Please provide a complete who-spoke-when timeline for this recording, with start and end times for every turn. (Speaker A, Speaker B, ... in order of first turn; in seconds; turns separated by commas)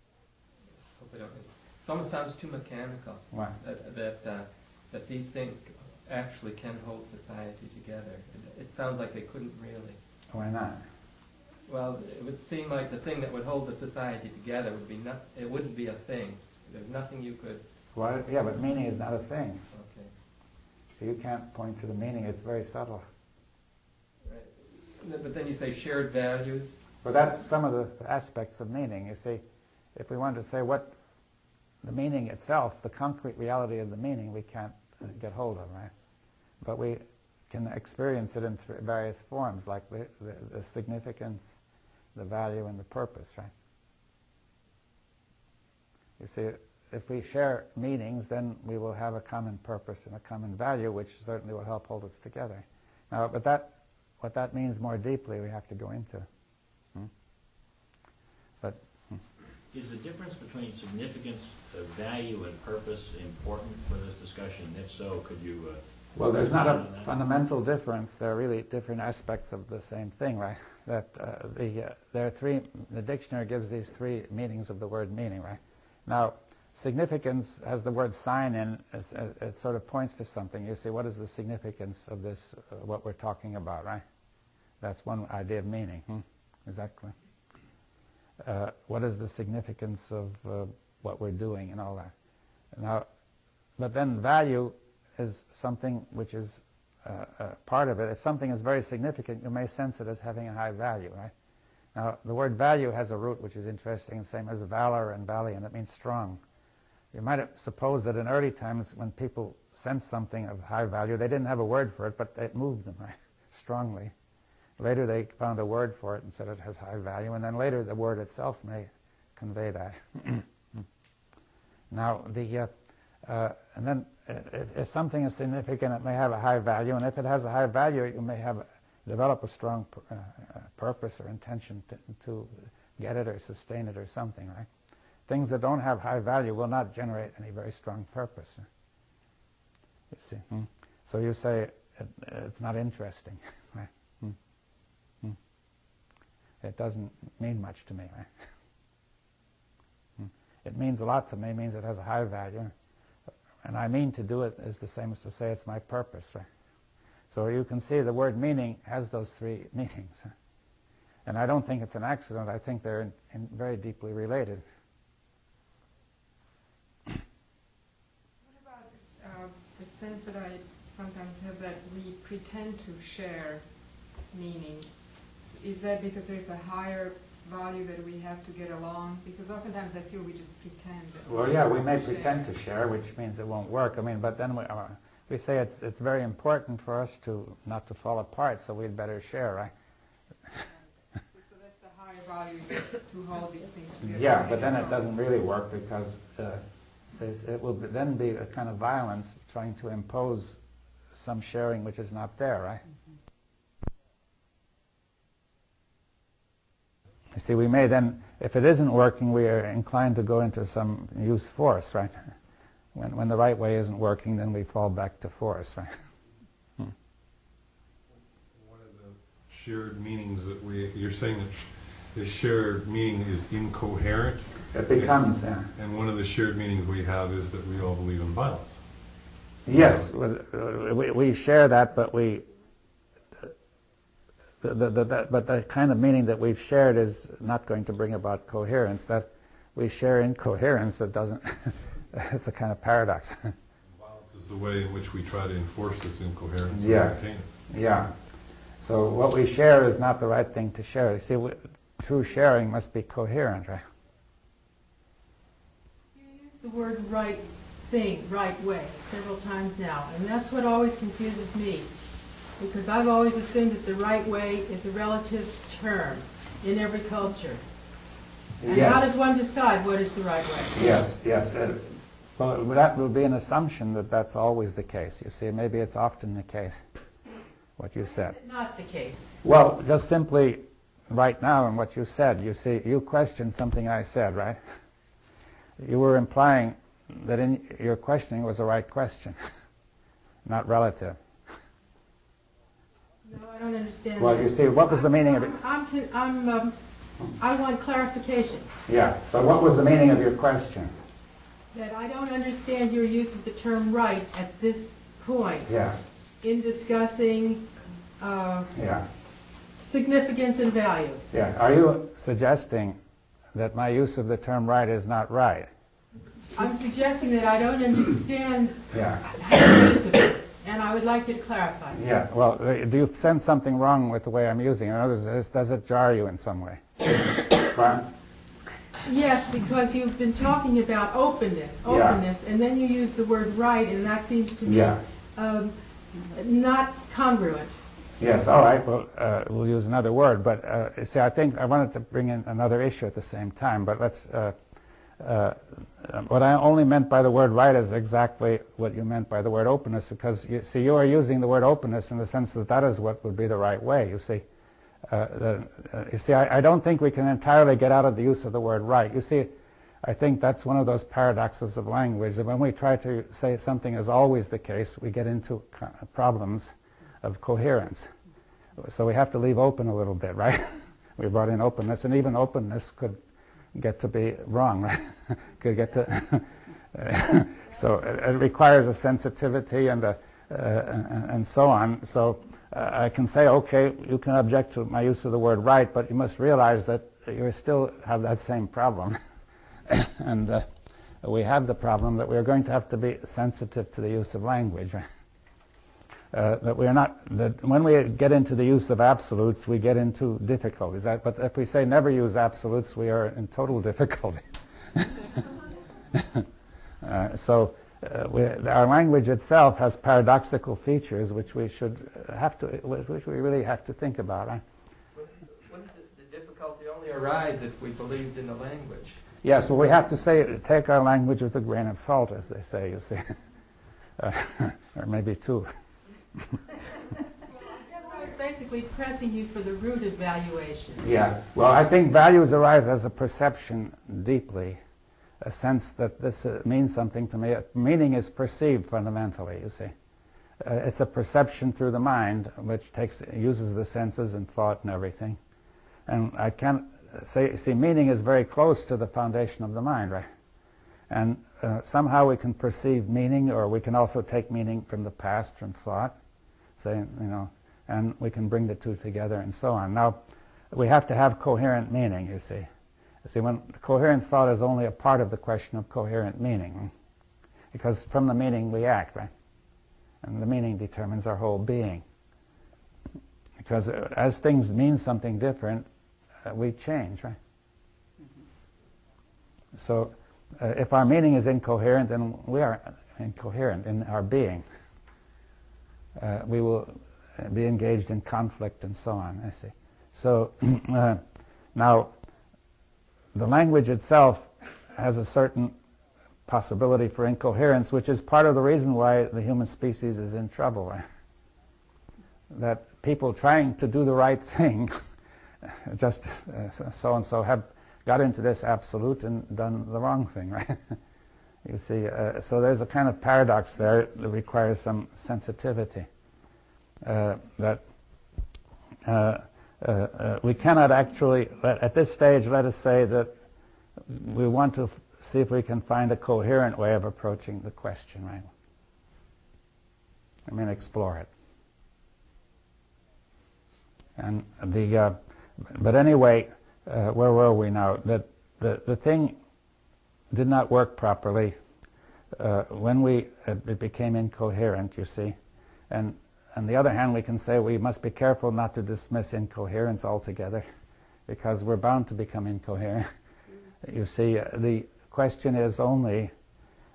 Speaker A: 0.8-10.0, Speaker B: 3.3-3.6, Speaker B: 10.3-10.8, Speaker A: 11.7-17.7, Speaker B: 17.9-19.6, Speaker A: 19.7-20.1, Speaker B: 20.9-23.1, Speaker A: 24.2-26.8, Speaker B: 27.0-29.4, Speaker B: 29.9-31.0, Speaker B: 31.8-35.9, Speaker B: 36.6-41.6, Speaker B: 42.1-43.5, Speaker B: 46.2-56.3, Speaker B: 58.6-59.2, Speaker C: 59.7-67.1, Speaker B: 66.2-84.0, Speaker B: 84.8-87.1, Speaker B: 88.4-92.1, Speaker B: 92.7-93.1, Speaker B: 93.8-101.3, Speaker B: 102.0-106.4, Speaker B: 107.1-114.1, Speaker B: 114.8-120.5, Speaker B: 121.9-122.7, Speaker B: 123.2-134.7, Speaker B: 135.3-138.7, Speaker B: 140.1-144.4, Speaker B: 146.6-148.4, Speaker B: 150.2-152.7, Speaker B: 153.6-156.5, Speaker B: 157.3-160.3, Speaker B: 161.3-164.6, Speaker D: 168.4-182.5, Speaker B: 181.3-189.7, Speaker D: 190.6-195.1, Speaker B: 194.0-200.6, Speaker B: 201.1-202.8, Speaker B: 207.3-212.3, Speaker B: 212.9-215.9, Speaker E: 218.6-225.2, Speaker B: 224.7-225.7, Speaker E: 225.8-228.8, Speaker B: 229.7-232.5, Speaker E: 229.7-230.1, Speaker B: 234.6-243.5, Speaker E: 243.8-247.5, Speaker B: 246.7-248.1, Speaker B: 248.8-253.8, Speaker F: 256.1-261.9, Speaker F: 262.6-267.6, Speaker B: 268.6-269.1, Speaker F: 268.6-270.9, Speaker B: 270.7-276.9, Speaker B: 277.8-278.4, Speaker F: 278.0-279.3, Speaker B: 279.4-284.6, Speaker B: 285.8-289.4, Speaker B: 290.4-291.2, Speaker F: 293.2-296.8, Speaker B: 294.2-295.5, Speaker F: 297.4-298.7, Speaker B: 298.9-300.9, Speaker F: 301.7-305.7, Speaker B: 305.7-306.0, Speaker F: 306.4-308.7, Speaker B: 308.7-309.1, Speaker F: 309.7-311.2, Speaker B: 311.3-313.0, Speaker B: 313.6-315.7, Speaker F: 316.6-322.0, Speaker B: 318.9-319.4, Speaker B: 321.9-328.1, Speaker F: 329.1-337.8, Speaker B: 331.9-332.2, Speaker B: 334.6-335.0, Speaker B: 338.2-344.6, Speaker B: 345.2-354.4, Speaker B: 355.1-368.1, Speaker B: 368.8-373.2, Speaker B: 373.8-389.2, Speaker B: 389.9-390.7, Speaker B: 391.2-395.1, Speaker B: 396.3-405.2, Speaker B: 406.1-406.4, Speaker B: 407.0-414.6, Speaker A: 415.1-419.2, Speaker B: 419.4-423.4, Speaker B: 424.2-425.7, Speaker F: 427.5-431.1, Speaker B: 431.0-434.8, Speaker B: 435.4-439.9, Speaker B: 440.6-445.4, Speaker B: 446.1-450.3, Speaker B: 451.1-456.1, Speaker B: 456.8-460.2, Speaker B: 460.7-462.7, Speaker B: 463.2-466.9, Speaker B: 467.7-469.3, Speaker B: 470.2-472.0, Speaker B: 473.6-475.9, Speaker B: 476.4-477.4, Speaker B: 479.8-484.6, Speaker B: 486.2-491.2, Speaker B: 491.8-492.1, Speaker B: 493.3-495.8, Speaker B: 496.5-501.0, Speaker B: 502.5-505.0, Speaker B: 505.6-511.0, Speaker B: 511.6-516.1, Speaker B: 517.0-517.9, Speaker B: 519.0-523.4, Speaker B: 524.1-528.5, Speaker B: 530.5-531.3, Speaker B: 534.2-539.4, Speaker B: 540.3-541.6, Speaker B: 542.4-545.4, Speaker B: 545.9-550.6, Speaker B: 551.3-553.1, Speaker B: 553.8-556.3